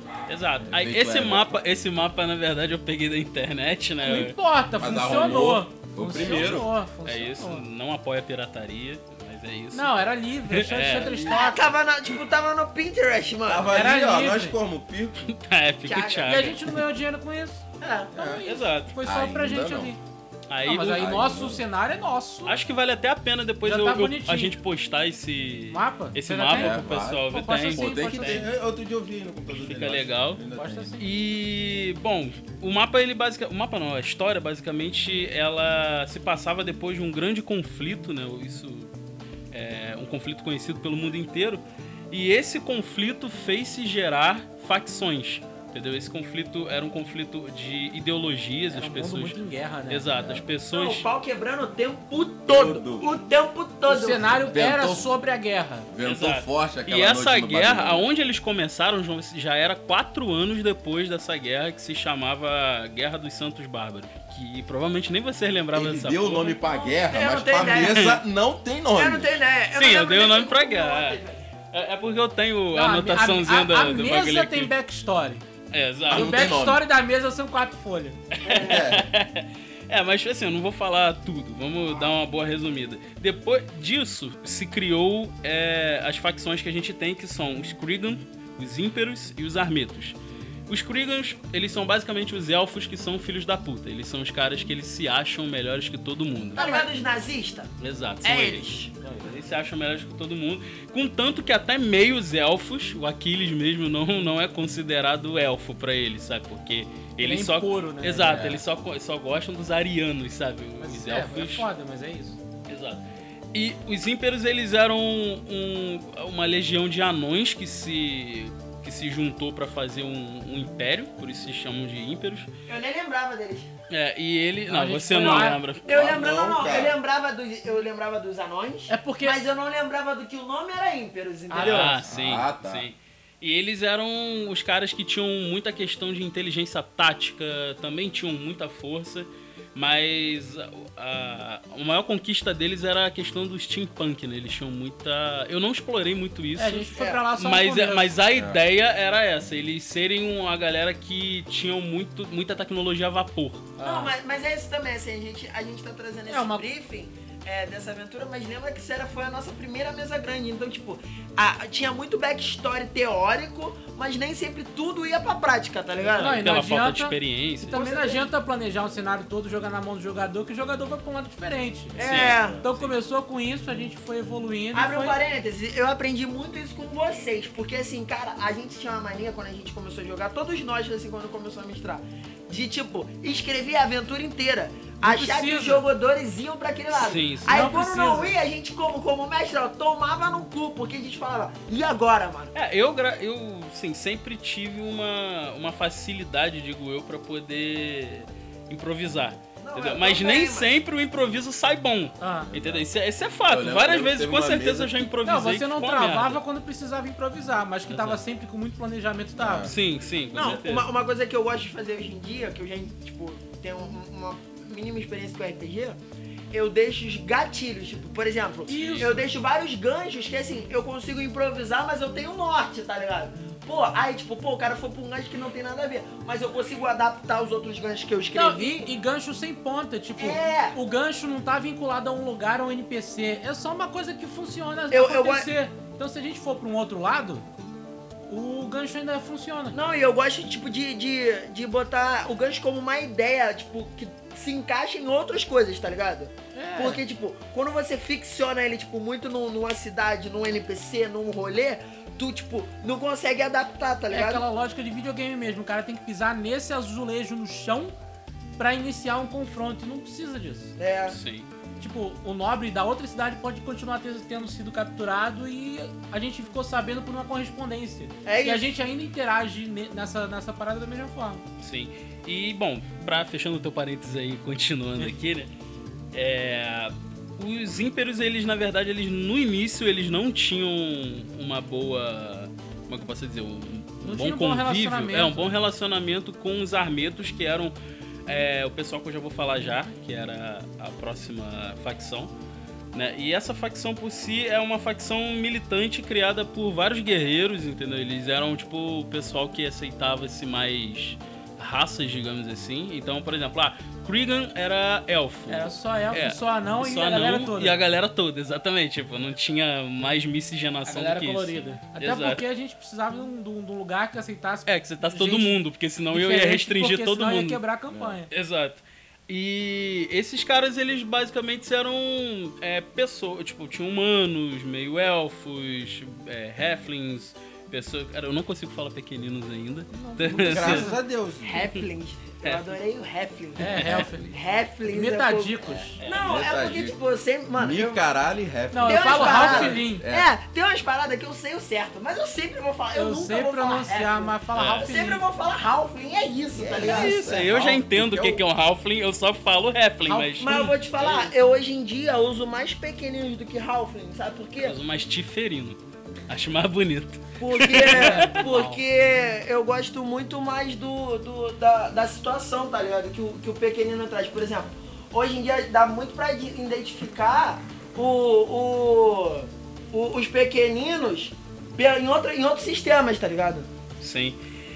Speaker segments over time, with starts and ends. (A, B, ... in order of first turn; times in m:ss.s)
0:00.3-0:04.4 A
0:00.6-0:01.6 B
0:04.0-0:07.6 C
0:04.8-0:06.7 B
0:07.1-0:09.9 A
0:09.7-0:11.7 C
0:10.5-0:11.2 A
0:11.0-0:13.8 D
0:13.5-0:15.3 B
0:13.7-0:14.6 C
0:15.3-0:16.6 A
0:15.8-0:16.5 D
0:16.3-0:20.0 C
0:17.8-0:18.1 D
0:18.1-0:18.5 B
0:18.4-0:18.9 A
0:19.0-0:19.9 B
0:20.5-0:21.1 A
0:20.6-0:22.6 C
0:20.9-0:21.6 B
0:22.5-0:28.5 A
0:23.6-0:24.5 C
0:25.7-0:28.5 C
0:26.5-0:30.9 B
0:29.5-0:30.4 A
0:30.6-0:31.1 C
0:31.0-0:38.9 A
0:39.5-0:49.4 A
0:48.7-0:50.1 C
0:49.9-0:51.0 A
0:50.2-0:50.5 B
0:50.7-0:54.4 D
0:52.5-0:53.1 B
0:53.9-0:55.9 C
0:54.5-0:55.1 B
0:55.9-0:58.0 B
0:56.0-1:06.6 A
1:05.7-1:09.4 B
1:06.6-1:08.2 D
1:07.7-1:08.1 A
1:09.0-1:11.5 D
1:09.7-1:11.2 A
1:11.7-1:14.7 A
1:12.7-1:15.4 C
1:15.7-1:16.4 A
1:16.1-1:18.2 C
1:16.1-1:16.8 B
1:18.3-1:30.2 A
1:18.4-1:18.8 D
1:18.5-1:19.1 B
1:30.7-1:36.7 A
1:36.6-1:36.9 C
1:36.6-1:37.7 D
1:37.8-1:51.7 A
1:38.2-1:38.9 D
1:47.2-1:48.6 C
1:50.8-1:52.4 C
1:52.7-1:53.0 A
1:53.5-2:02.5 A
2:02.7-2:03.7 D
2:03.9-2:05.9 A
2:04.7-2:05.6 C
2:05.8-2:06.9 B
2:05.9-2:12.0 D
2:08.9-2:09.5 C
2:11.5-2:12.1 C
2:11.6-2:33.7 A
2:12.1-2:12.9 B
2:26.6-2:28.2 C
2:26.9-2:27.2 D
2:28.3-2:28.6 B
2:33.8-2:34.1 C
2:33.8-2:46.4 D
2:36.3-2:36.7 C
2:46.0-2:55.2 C
2:46.2-2:47.8 A
2:47.7-2:48.3 D
2:52.0-2:52.6 D
2:52.0-2:52.7 B
2:52.0-2:52.9 A
2:54.7-3:12.5 D
3:05.0-3:05.8 C
3:06.9-3:07.7 A
3:07.4-3:08.4 C
3:12.5-3:26.4 A
3:19.6-3:20.8 D
3:22.2-3:22.5 C
3:22.5-3:22.9 B
3:23.5-3:25.1 B
3:25.2-3:29.7 C
3:27.9-3:28.2 A
3:29.4-3:29.8 B
3:29.6-3:30.9 A
3:30.3-3:36.0 D
3:36.5-3:48.9 D
3:38.7-3:39.2 A
3:38.7-3:39.3 C
3:48.3-3:57.4 C
3:50.2-3:50.8 D
3:54.9-3:55.5 D
3:58.3-3:59.8 C
3:59.7-4:14.4 D
4:06.5-4:07.0 C
4:14.1-4:17.9 C
4:18.6-4:20.7 C
4:20.8-4:21.2 D
4:21.1-4:21.5 A
4:21.8-4:31.4 C
4:28.2-4:28.7 D
4:31.6-4:35.5 A
4:36.1-4:47.8 A
4:44.0-4:45.5 C
4:48.3-4:52.3 A
4:52.9-5:12.4 A
5:05.5-5:07.8 C
5:10.9-5:15.6 C
5:14.7-5:17.6 A
5:16.1-5:18.3 C
5:17.9-5:18.2 B
5:18.3-5:30.9 A
5:29.9-5:31.0 C
5:30.4-5:31.7 B
5:31.4-5:38.0 D
5:32.4-5:32.7 A
5:33.6-5:34.2 C
5:33.7-5:34.4 B
5:34.9-5:36.0 C
5:35.7-5:37.0 B
5:36.0-5:36.5 A
5:37.6-5:40.3 B
5:38.7-5:40.0 C
5:38.8-5:47.3 D
5:42.9-5:45.2 C
5:44.5-5:44.9 A
5:46.5-5:48.4 B
5:46.8-5:51.2 A
5:50.0-5:50.7 C
5:50.4-5:54.8 D
5:54.6-5:58.4 A
5:57.4-6:13.7 D
5:57.8-5:58.8 C
6:14.0-6:14.4 A